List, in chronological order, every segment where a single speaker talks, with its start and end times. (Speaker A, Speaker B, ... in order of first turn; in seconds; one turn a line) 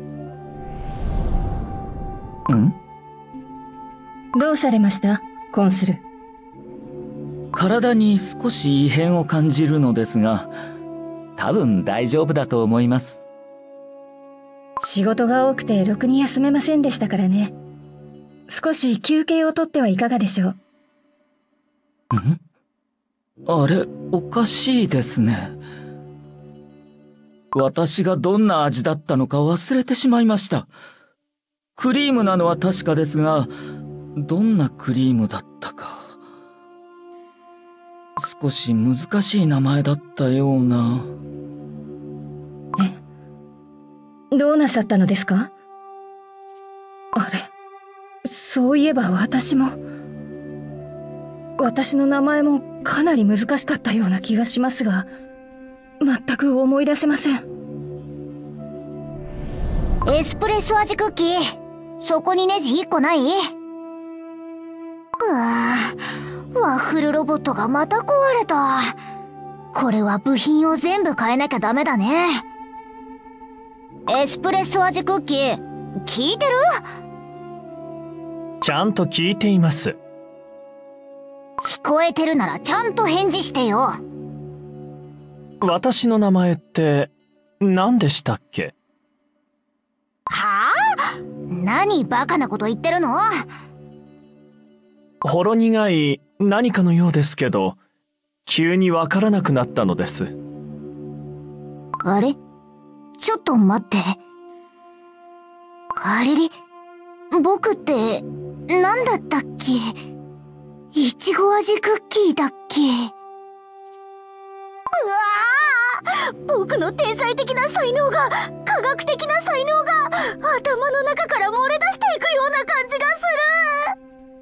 Speaker A: 4.3-6.0
Speaker B: 7.5-10.5
Speaker B: 11.4-13.2
Speaker A: 14.8-17.5
Speaker A: 18.5-20.6
Speaker B: 23.5-25.5
Speaker B: 27.5-30.7
Speaker B: 31.8-33.5
Speaker B: 34.2-36.1
Speaker B: 38.2-41.0
Speaker A: 44.3-45.5
Speaker A: 47.1-47.5
Speaker A: 48.2-49.8
Speaker A: 51.6-55.1
Speaker A: 56.0-57.4
Speaker C: 60.0-63.5
Speaker C: 65.2-66.0
Speaker C: 66.5-69.0
Speaker C: 69.7-72.4
Speaker C: 74.1-76.8
Speaker D: 78.6-79.9
Speaker C: 81.6-84.0
Speaker D: 85.6-87.1
Speaker D: 87.6-88.7
Speaker C: 90.3-93.5
Speaker D: 95.2-97.8
Speaker D: 98.5-100.3
Speaker C: 102.0-102.4
Speaker C: 103.2-104.2
Speaker C: 106.0-106.5
Speaker C: 107.3-110.0
Speaker C: 110.9-113.1
Speaker C: 114.9-123.9